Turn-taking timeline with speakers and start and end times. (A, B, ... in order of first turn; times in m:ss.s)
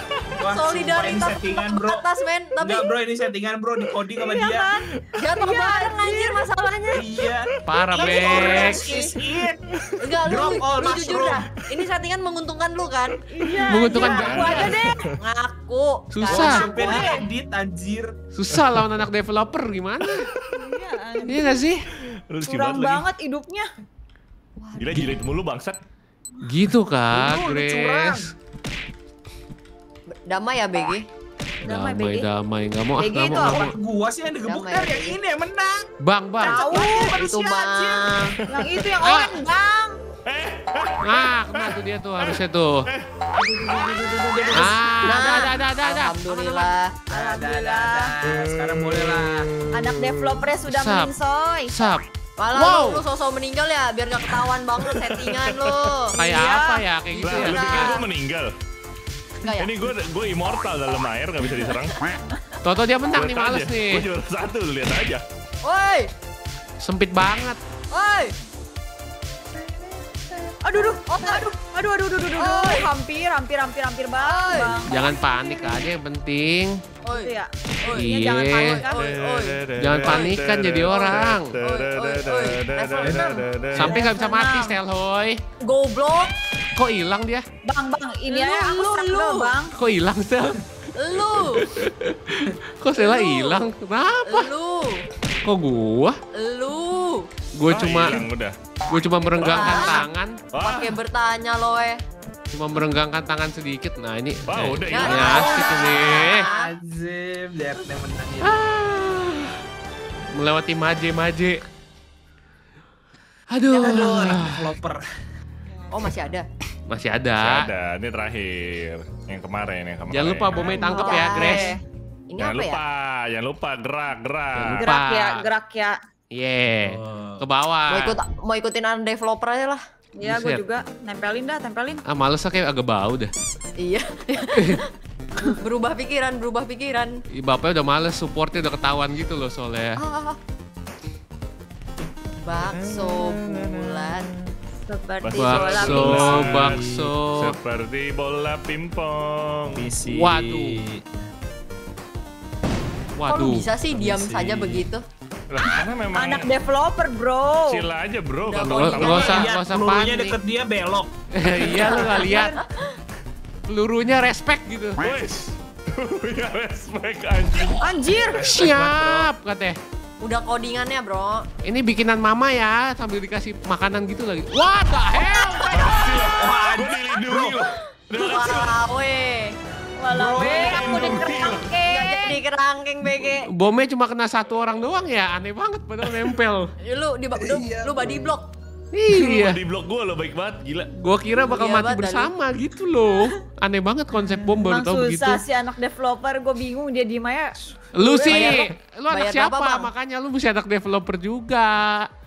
0:00.4-0:02.0 A
0:00.4-0:02.9 B
0:02.6-0:04.7 A
0:04.2-0:06.6 C
0:05.1-0:07.0 B
0:06.9-0:09.6 A
0:07.7-0:08.8 D
0:07.9-0:09.1 C
0:10.0-0:13.2 B
0:10.2-0:11.5 A
0:13.3-0:15.1 C
0:13.7-0:14.7 D
0:13.9-0:17.1 B
0:14.1-0:15.1 E
0:16.1-0:16.7 D
0:16.3-0:18.1 A
0:16.6-0:17.3 C
0:18.3-0:20.2 D
0:18.5-0:18.8 E
0:20.1-0:20.5 E
0:20.5-0:21.6 C
0:21.2-0:21.8 D
0:22.3-0:23.1 E
0:22.4-0:23.6 C
0:24.6-0:25.2 B
0:24.8-0:25.8 E
0:26.4-0:28.2 D
0:27.1-0:28.3 A
0:30.1-0:31.1 B
0:31.6-0:32.3 C
0:31.6-0:33.7 D
0:33.0-0:33.6 C
0:33.3-0:38.1 A
0:34.4-0:35.2 B
0:36.0-0:36.7 D
0:36.4-0:37.2 C
0:37.2-0:38.4 B
0:38.5-0:40.0 C
0:39.0-0:39.4 D
0:40.2-0:43.1 E
0:41.0-0:42.9 D
0:43.6-0:44.4 B
0:43.7-0:45.2 A
0:44.5-0:46.7 D
0:45.0-0:47.0 B
0:47.1-0:49.5 A
0:47.1-0:48.1 C
0:48.3-0:50.4 E
0:49.7-0:51.8 C
0:50.6-0:51.1 D
0:51.7-0:52.0 D
0:52.4-0:56.2 B
0:52.5-0:53.0 D
0:54.8-0:55.9 E
0:56.1-0:56.8 C
0:56.2-0:58.0 D
0:57.2-0:58.1 B
0:57.2-0:58.5 E
0:59.4-0:59.7 B
0:59.5-1:02.2 E
1:02.6-1:04.0 D
1:03.1-1:05.2 E
1:05.6-1:06.1 B
1:06.8-1:07.6 D
1:07.9-1:08.3 B
1:10.6-1:15.6 C
1:10.9-1:11.5 B
1:12.3-1:13.0 B
1:14.2-1:14.8 B
1:14.8-1:16.8 D
1:17.0-1:20.3 B
1:17.1-1:19.0 C
1:17.9-1:18.8 D
1:19.0-1:24.0 E
1:19.8-1:21.6 D
1:20.9-1:23.2 B
1:23.0-1:24.0 A
1:23.7-1:25.4 D
1:23.9-1:24.8 C
1:25.6-1:26.3 B
1:26.7-1:27.4 D
1:27.6-1:29.7 C
1:28.3-1:29.6 B
1:29.7-1:30.6 D
1:31.0-1:31.6 B
1:31.4-1:34.5 D
1:33.0-1:33.6 B
1:34.2-1:35.0 B
1:35.4-1:36.2 D
1:36.3-1:37.3 B
1:37.5-1:38.2 D
1:37.7-1:38.5 E
1:38.9-1:40.4 D
1:39.4-1:40.1 B
1:39.4-1:39.7 E
1:40.5-1:41.0 E
1:40.6-1:42.0 B
1:42.5-1:46.5 D
1:44.5-1:45.7 E
1:44.9-1:46.7 B
1:45.4-1:48.6 A
1:48.4-1:49.5 D
1:50.3-1:51.6 D
1:53.5-1:54.6 D
1:53.7-1:54.2 B
1:53.8-1:55.0 A
1:55.7-1:56.0 C
1:55.9-1:56.5 B
1:56.9-1:57.6 D
1:57.4-2:00.9 E
2:00.1-2:01.7 D
2:00.9-2:01.8 B
2:00.9-2:01.8 C
2:02.3-2:02.8 B
2:02.4-2:04.9 E
2:04.5-2:05.4 D
2:04.8-2:06.0 C
2:06.3-2:08.2 D
2:06.8-2:07.4 A
2:07.9-2:09.8 B
2:10.2-2:12.0 C
2:10.2-2:10.6 D
2:12.1-2:13.3 D
2:13.8-2:17.2 B
2:14.5-2:14.8 D
2:17.3-2:20.0 D
2:20.0-2:20.4 B
2:22.4-2:24.3 B
2:24.8-2:26.5 C
2:25.2-2:29.8 E
2:25.4-2:27.5 D
2:26.3-2:27.0 A
2:29.7-2:31.3 A
2:30.1-2:30.8 D
2:33.2-2:33.6 D
2:33.2-2:35.0 B
2:33.8-2:34.9 A
2:35.5-2:36.6 E
2:36.1-2:37.8 C
2:37.6-2:39.5 E
2:38.4-2:39.5 B
2:38.6-2:40.4 D
2:39.1-2:41.1 A
2:41.3-2:42.5 D
2:41.6-2:42.8 B
2:41.6-2:42.6 C
2:43.7-2:45.0 D
2:45.0-2:47.9 E
2:47.8-2:48.4 C
2:48.3-2:49.3 A
2:48.4-2:49.8 D
2:50.2-2:51.5 B
2:51.6-2:55.9 D
2:55.3-2:55.8 B
2:55.7-2:58.8 E
2:56.1-2:57.7 A
2:58.1-2:59.6 B
3:00.0-3:02.4 C
3:00.1-3:01.5 A
3:00.4-3:00.8 B
3:00.9-3:01.6 E
3:01.8-3:03.5 B
3:03.5-3:06.7 D
3:06.8-3:08.5 B
3:07.4-3:08.3 A
3:08.9-3:09.6 D
3:09.1-3:10.9 E
3:11.0-3:15.4 D
3:11.4-3:12.3 B
3:14.6-3:18.6 C
3:17.9-3:22.1 D
3:18.2-3:19.9 B